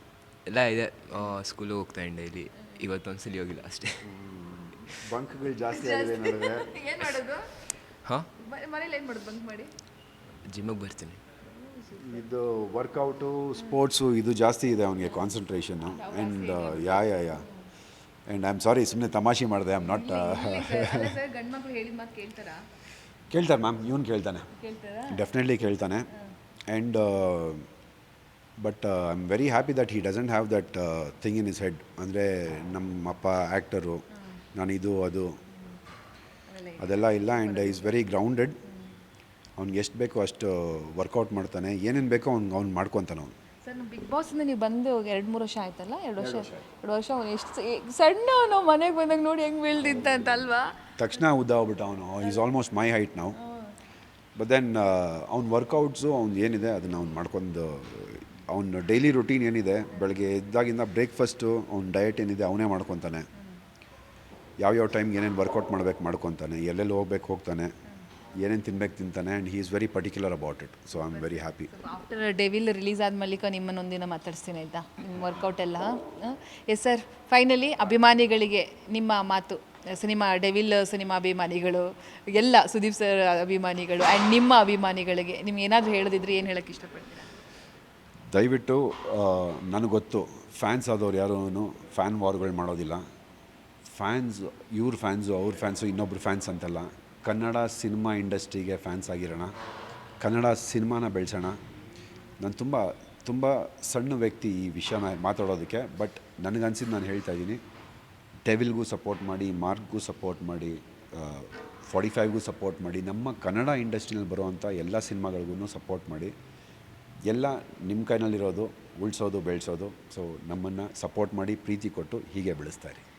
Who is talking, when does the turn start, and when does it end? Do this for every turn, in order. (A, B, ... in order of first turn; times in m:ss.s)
0:00.4-0:04.1 A
0:04.0-0:06.7 B
0:05.7-0:07.5 C
0:08.3-0:09.7 C
0:10.4-0:11.2 A
0:11.4-0:12.2 C
0:12.0-0:17.4 B
0:15.8-0:17.5 C
0:18.3-0:21.1 B
0:19.8-0:22.6 C
0:23.3-0:24.5 B
0:24.5-0:25.2 C
0:25.1-0:26.1 B
0:26.7-0:27.6 B
0:28.6-0:35.4 B
0:36.5-0:38.0 C
0:36.8-0:38.6 B
0:38.7-0:38.9 C
0:39.6-0:43.3 B
0:43.6-0:50.7 C
0:46.2-0:46.6 B
0:49.8-0:50.4 B
0:51.0-0:53.4 B
0:53.4-0:53.8 C
0:54.4-1:03.2 B
1:04.6-1:07.7 B
1:08.3-1:11.7 B
1:11.0-1:27.3 C
1:28.3-1:33.0 B
1:33.9-1:39.5 B
1:40.2-1:41.6 B
1:42.4-1:47.6 B
1:48.4-1:56.3 B
1:57.2-2:03.0 B